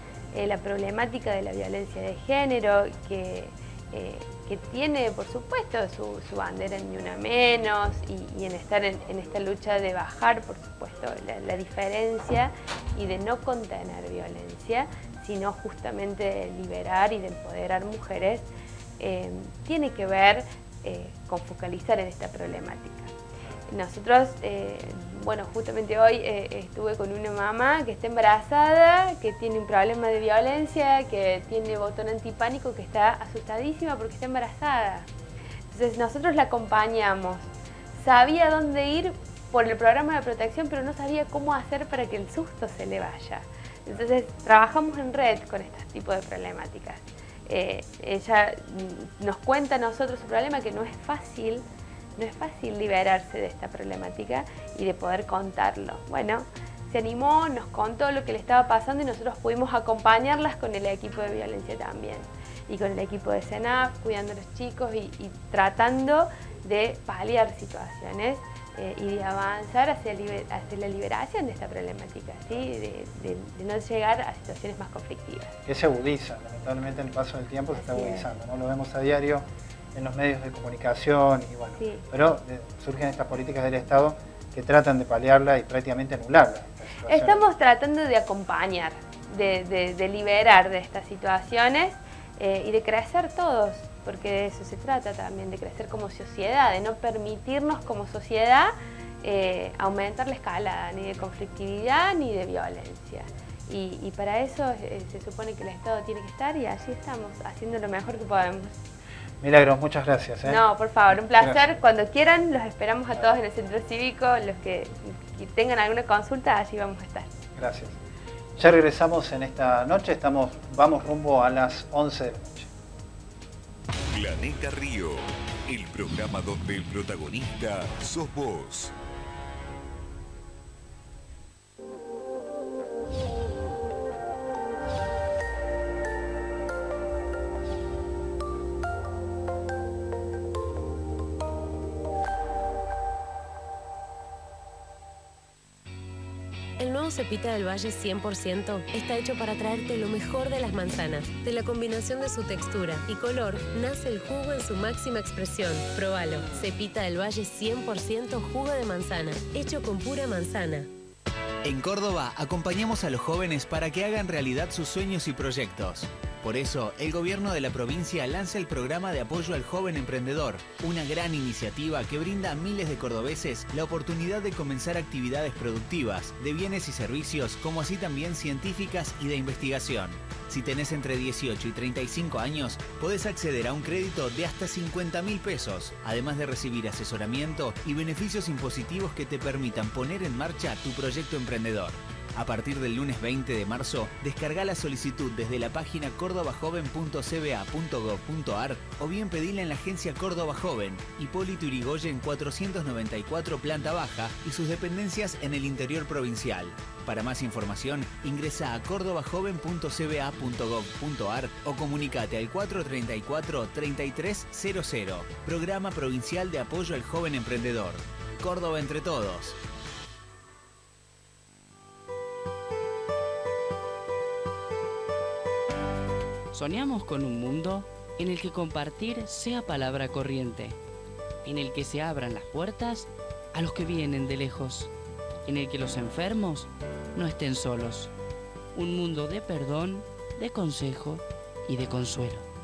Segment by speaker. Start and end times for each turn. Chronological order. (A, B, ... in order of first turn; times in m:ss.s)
0:00.3-0:18.4 A
0:19.0-0:23.1 A
0:23.7-0:35.1 A
0:35.7-0:51.6 A
0:52.2-1:15.6 A
1:15.7-1:27.5 B
1:17.7-1:18.3 A
1:21.8-1:22.1 A
1:27.1-1:48.8 A
1:49.4-1:51.7 B
1:50.4-1:57.3 A
1:53.1-1:53.4 B
1:57.6-1:58.0 B
1:58.6-2:02.7 B
2:04.1-2:08.9 C
2:26.8-2:40.9 D
2:41.6-3:39.6 E
3:46.5-3:50.8 F
3:51.4-3:54.9 F
3:55.4-3:58.1 F
3:58.7-4:02.4 F